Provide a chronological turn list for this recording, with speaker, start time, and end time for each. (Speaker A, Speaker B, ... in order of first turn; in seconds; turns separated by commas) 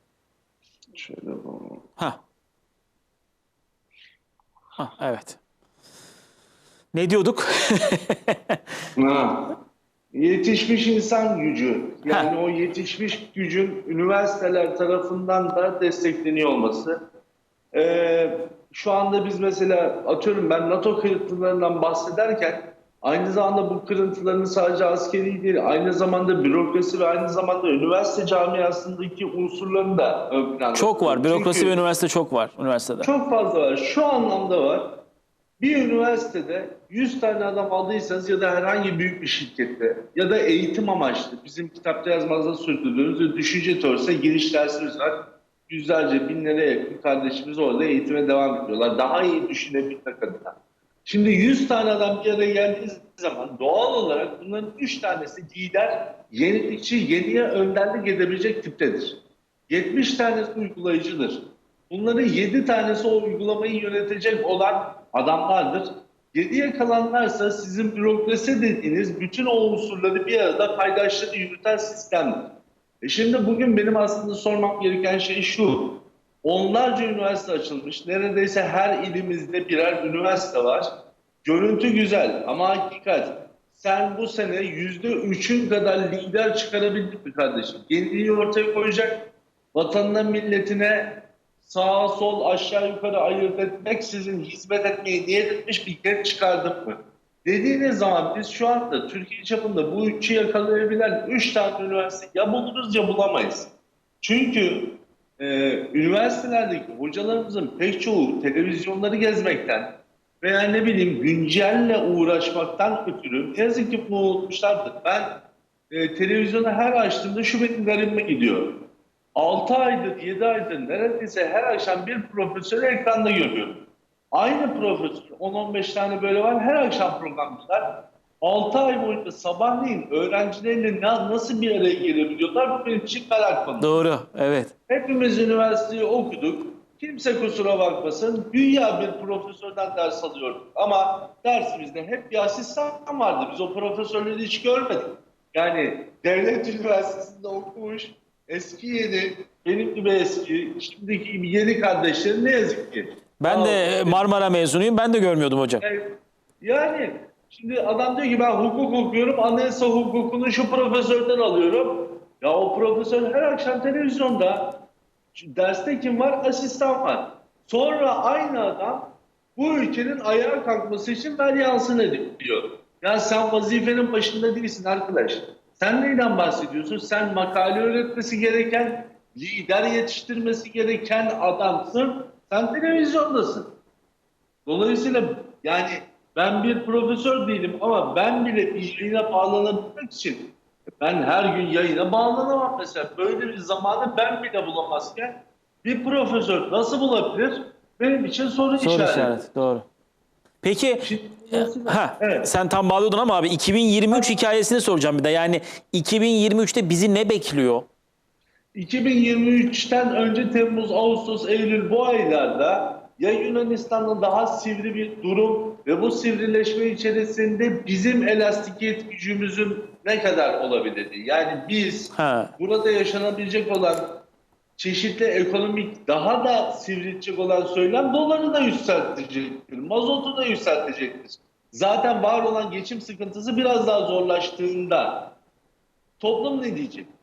Speaker A: 0.9-1.8, Speaker B: 4.8-5.4, Speaker B: 6.9-8.6, Speaker A: 8.9-9.4, Speaker A: 10.1-16.9, Speaker A: 17.7-31.8, Speaker B: 30.7-33.1, Speaker A: 33.0-34.9, Speaker A: 35.6-45.1, Speaker A: 45.7-59.2, Speaker A: 59.7-72.4, Speaker A: 73.0-75.9, Speaker A: 76.4-80.9, Speaker A: 81.4-89.2, Speaker A: 89.7-91.1, Speaker A: 91.6-103.7, Speaker A: 104.2-109.9, Speaker A: 110.4-115.3, Speaker A: 115.9-118.7, Speaker A: 119.3-123.8, Speaker A: 124.3-134.0, Speaker B: 133.8-134.7, Speaker A: 134.9-154.2, Speaker B: 153.4-155.8, Speaker A: 155.8-156.1, Speaker A: 156.6-164.7, Speaker A: 165.3-183.7, Speaker A: 184.7-190.5, Speaker A: 191.0-199.3, Speaker B: 198.8-199.8, Speaker B: 200.6-207.8, Speaker A: 201.0-202.5, Speaker A: 208.7-224.1, Speaker B: 222.2-222.5, Speaker A: 224.8-235.2, Speaker A: 236.2-237.1